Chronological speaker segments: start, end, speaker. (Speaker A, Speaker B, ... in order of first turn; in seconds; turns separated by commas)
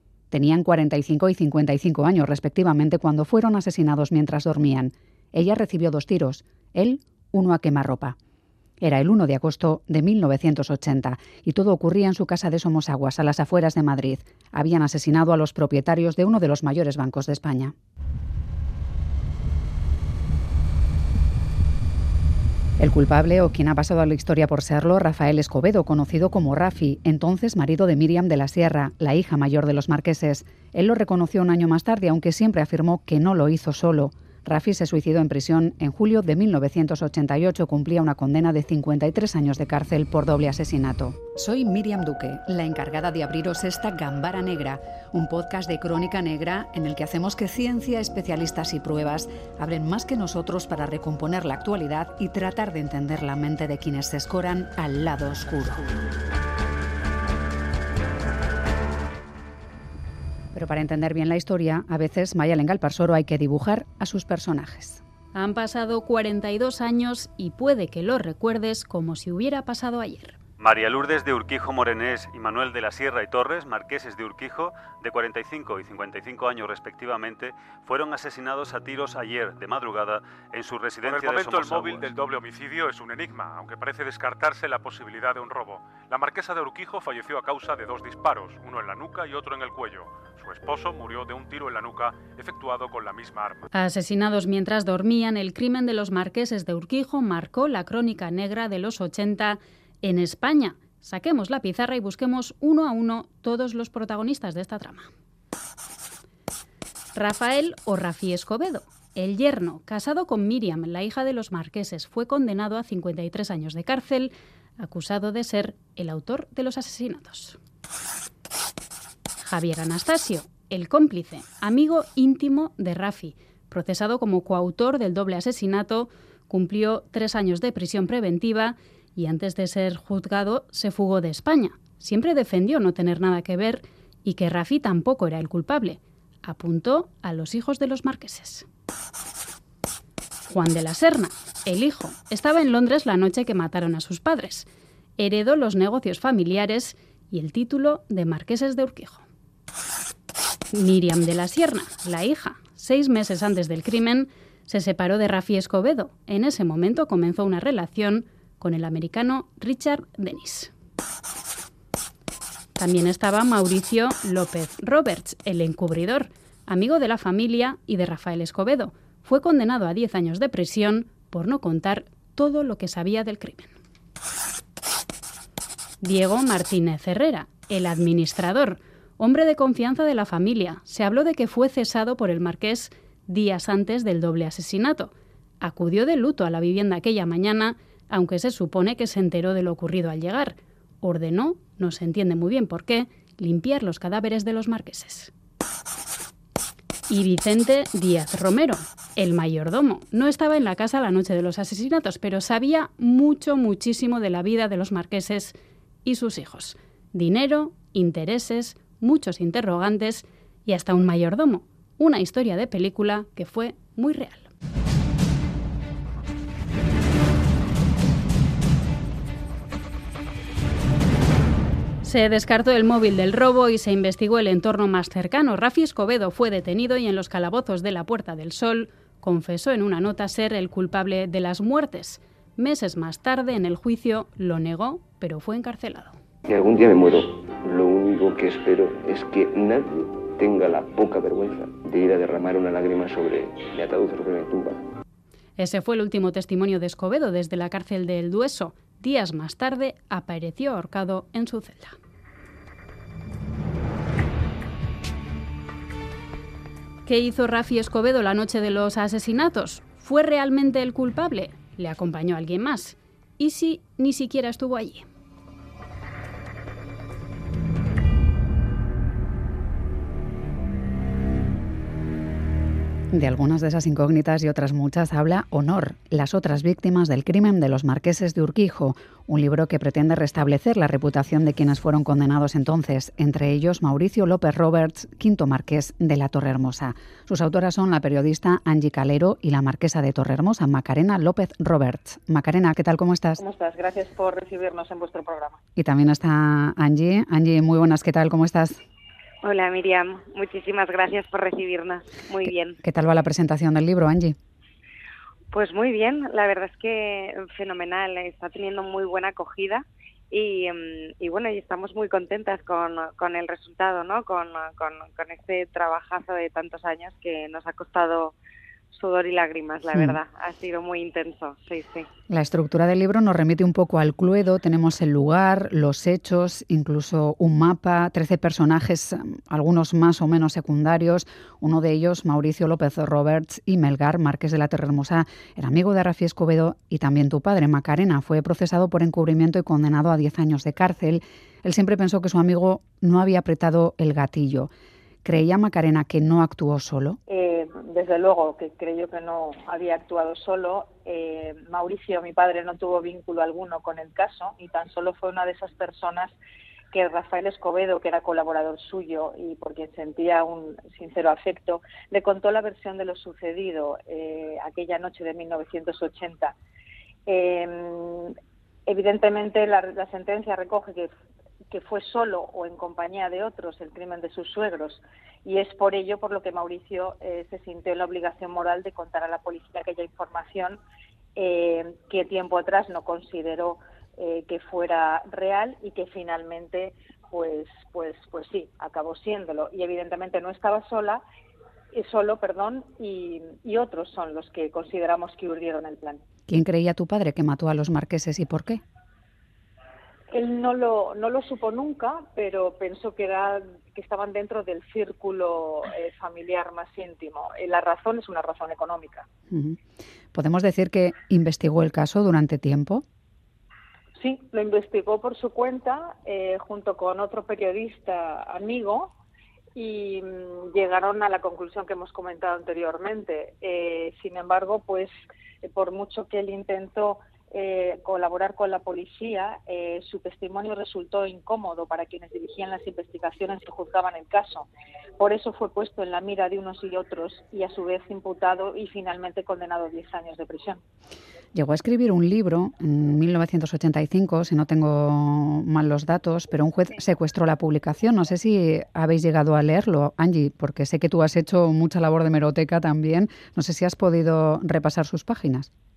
Speaker A: 0.3-8.2, Speaker A: 8.8-17.7, Speaker A: 22.8-56.0, Speaker A: 60.5-65.0, Speaker B: 65.3-70.4, Speaker C: 70.6-82.1, Speaker D: 81.0-93.7, Speaker B: 93.7-105.1, Speaker B: 107.1-117.6, Speaker B: 119.4-138.7, Speaker B: 140.5-149.2, Speaker B: 150.7-160.7, Speaker B: 162.8-173.7, Speaker B: 176.0-195.3, Speaker B: 197.1-214.5, Speaker B: 222.0-236.2, Speaker E: 236.4-244.8, Speaker B: 245.6-251.9, Speaker B: 257.0-265.1, Speaker A: 273.1-293.4, Speaker F: 293.4-295.6, Speaker A: 295.8-298.8, Speaker G: 299.4-302.8, Speaker A: 302.8-304.4, Speaker G: 305.5-318.3, Speaker G: 318.9-322.1, Speaker A: 322.3-344.7, Speaker A: 345.2-347.2, Speaker F: 347.3-356.4, Speaker F: 356.9-366.6, Speaker F: 367.2-371.1, Speaker F: 371.7-380.8, Speaker F: 381.3-391.2, Speaker F: 391.9-396.2, Speaker A: 396.5-398.8, Speaker F: 400.3-409.3, Speaker A: 409.5-409.8, Speaker A: 410.3-413.0, Speaker F: 414.1-419.1, Speaker F: 419.7-440.8, Speaker A: 441.5-455.7